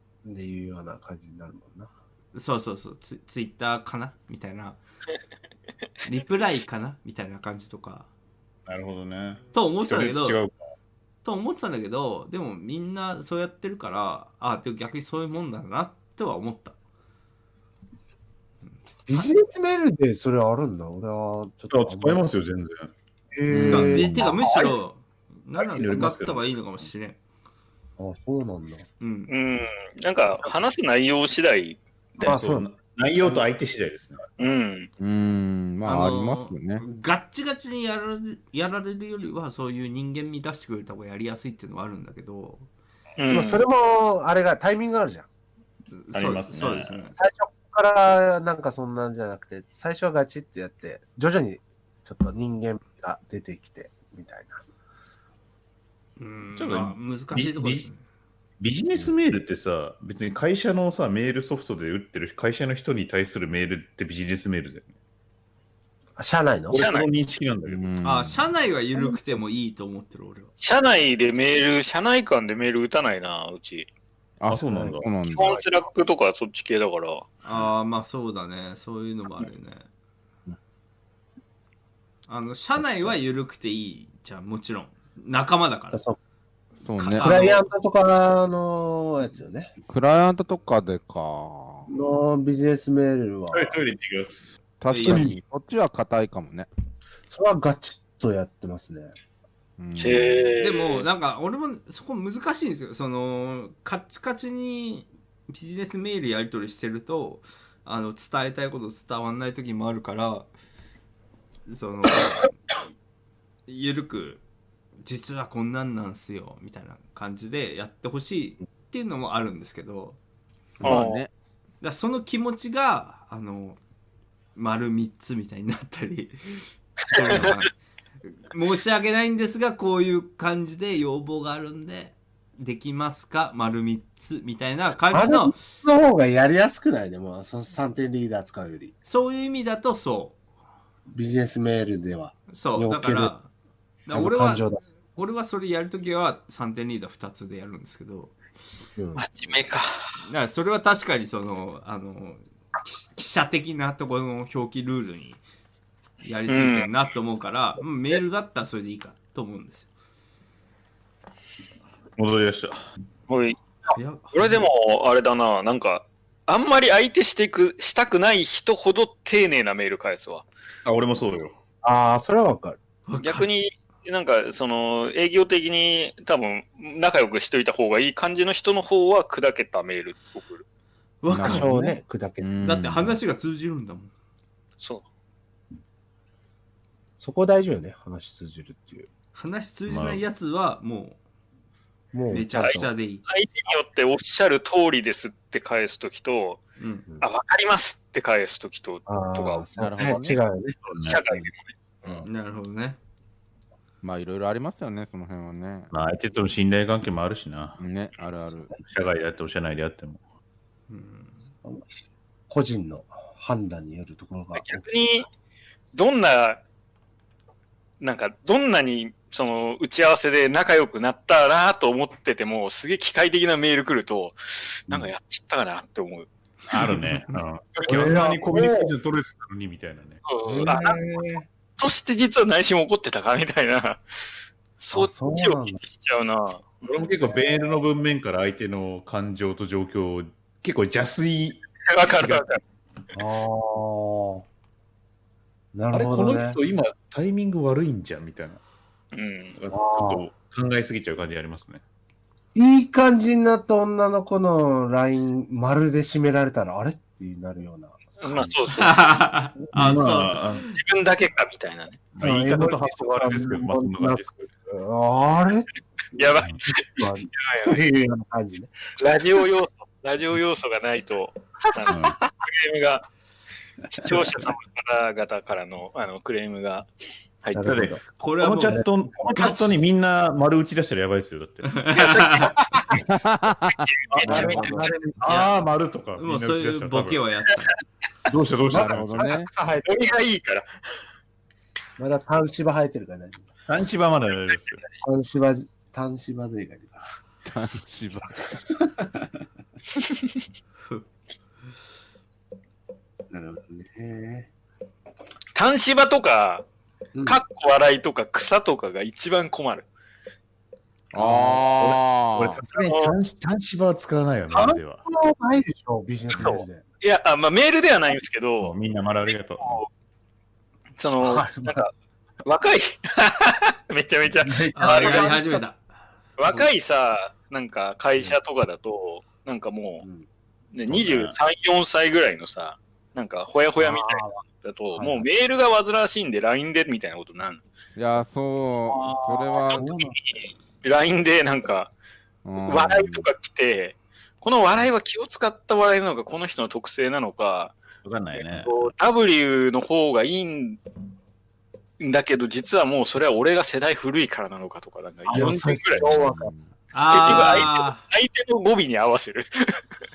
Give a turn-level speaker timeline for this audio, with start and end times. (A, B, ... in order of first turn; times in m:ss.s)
0:00.2-0:01.9 A
0:02.3-0:04.8 B
0:06.0-0:08.1 B
0:08.6-0:10.6 C
0:09.5-0:10.4 B
0:11.2-0:16.8 B
0:19.1-0:22.2 A
0:21.7-0:22.9 C
0:23.3-0:24.7 A
0:23.5-0:24.3 D
0:23.5-0:27.2 B
0:25.6-0:26.5 C
0:28.0-0:28.8 A
0:29.0-0:29.3 B
0:29.3-0:31.8 E
0:32.2-0:34.4 C
0:32.2-0:32.7 A
0:34.4-0:34.9 E
0:35.0-0:36.8 D
0:35.8-0:42.7 B
0:43.2-0:43.6 E
0:43.3-0:45.3 A
0:45.9-0:47.2 B
0:46.1-0:47.0 C
0:47.1-0:54.6 A
0:56.2-0:58.0 B
0:56.6-0:57.9 C
0:58.6-1:04.9 C
1:06.2-1:06.8 A
1:06.7-1:07.9 C
1:06.7-1:07.1 E
1:07.6-1:08.4 D
1:08.0-1:10.5 B
1:10.6-1:13.9 E
1:14.4-1:15.6 D
1:14.5-1:15.1 C
1:14.6-1:15.0 A
1:15.3-1:17.3 E
1:17.4-1:19.9 B
1:22.3-1:26.0 B
1:25.9-1:26.2 A
1:26.8-1:27.3 D
1:27.0-1:27.7 B
1:27.0-1:29.7 A
1:29.9-1:31.9 D
1:31.9-1:33.8 A
1:33.5-1:34.5 C
1:34.8-1:36.7 D
1:34.9-1:35.3 B
1:35.0-1:35.4 A
1:37.3-1:39.1 A
1:39.8-1:40.5 D
1:40.0-1:41.1 E
1:40.6-1:50.5 B
1:51.7-1:52.6 B
1:53.7-1:54.4 B
1:55.0-2:00.2 B
2:00.8-2:01.3 D
2:00.8-2:01.2 E
2:01.8-2:03.8 B
2:04.6-2:07.7 B
2:07.1-2:07.5 E
2:08.2-2:15.6 B
2:15.1-2:18.9 A
2:19.0-2:20.4 B
2:21.1-2:23.3 A
2:22.5-2:23.5 B
2:24.0-2:28.4 B
2:24.1-2:24.8 A
2:29.0-2:29.2 A
2:29.2-2:30.2 E
2:30.2-2:35.4 B
2:36.2-2:39.9 B
2:36.5-2:36.9 E
2:42.2-2:42.8 C
2:43.3-2:43.6 E
2:43.9-2:44.7 B
2:44.3-2:50.4 E
2:50.8-2:51.6 C
2:51.8-2:52.8 A
2:53.1-2:53.5 B
2:53.2-3:00.6 E
3:01.2-3:01.8 B
3:01.3-3:03.2 D
3:01.4-3:02.5 A
3:02.6-3:04.1 B
3:07.2-3:09.1 A
3:09.3-3:11.2 B
3:09.9-3:10.2 C
3:12.1-3:12.9 A
3:12.3-3:13.2 B
3:13.2-3:16.6 E
3:16.8-3:17.0 B
3:17.2-3:19.7 E
3:19.1-3:20.8 A
3:19.8-3:20.4 D
3:20.8-3:21.2 C
3:21.0-3:21.7 E
3:22.2-3:23.0 B
3:24.0-3:25.9 D
3:25.9-3:27.8 C
3:27.8-3:28.7 D
3:28.8-3:30.2 C
3:30.9-3:31.5 B
3:32.5-3:34.8 A
3:34.5-3:35.3 E
3:35.9-3:36.6 E
3:38.0-3:46.3 E
3:46.7-3:50.7 C
3:47.8-3:48.9 A
3:50.2-3:51.0 E
3:50.4-3:51.5 A
3:51.8-3:54.0 E
3:54.8-3:56.8 E
3:54.9-3:55.8 A
3:56.8-4:02.4 C
4:01.9-4:02.6 E
4:03.1-4:04.4 A
4:05.7-4:06.6 A
4:05.9-4:08.6 C
4:09.1-4:09.6 E
4:09.6-4:11.8 C
4:09.7-4:10.2 A
4:12.5-4:18.5 A
4:18.2-4:19.2 E
4:18.7-4:20.7 B
4:19.7-4:20.6 C
4:20.7-4:22.0 E
4:22.2-4:24.4 C
4:22.2-4:25.7 A
4:26.2-4:27.8 E
4:26.2-4:28.9 A
4:29.0-4:33.0 E
4:31.9-4:32.2 C
4:33.9-4:36.9 E
4:37.4-4:37.7 E
4:37.5-4:38.0 A
4:37.6-4:41.8 C
4:38.2-4:39.6 B
4:41.6-4:42.6 B
4:41.9-4:42.8 E
4:42.9-4:44.8 D
4:43.8-4:44.9 E
4:44.2-4:44.9 A
4:44.2-4:47.2 C
4:46.2-4:47.7 B
4:48.3-4:49.2 C
4:48.3-4:50.0 A
4:48.7-4:49.5 D
4:49.8-4:50.7 E
4:52.0-4:53.4 A
4:53.7-4:54.8 C
4:55.0-4:57.0 A
4:57.4-4:58.6 D
5:03.3-5:04.5 A
5:05.5-5:06.6 E
5:07.1-5:07.4 A
5:07.2-5:09.8 E
5:11.1-5:12.6 D
5:11.2-5:15.0 C
5:12.9-5:13.1 E
5:14.5-5:16.8 A
5:16.4-5:18.7 E
5:18.6-5:19.8 C
5:19.6-5:19.9 E
5:21.0-5:21.9 E
5:21.2-5:21.8 A
5:22.4-5:25.4 E
5:24.4-5:25.6 A
5:24.7-5:25.8 B
5:26.4-5:30.0 E
5:30.7-5:37.6 E
5:30.9-5:31.3 C
5:33.8-5:34.3 A
5:35.0-5:35.2 A
5:38.0-5:39.8 D
5:39.3-5:40.2 A
5:39.5-5:41.9 E
5:42.4-5:43.3 D
5:42.6-5:47.8 E
5:48.0-5:48.7 C
5:48.4-5:50.8 E
5:52.0-5:56.2 E
5:55.3-5:56.5 A
5:55.3-5:56.7 D
5:56.9-5:58.0 B
5:57.0-5:59.8 E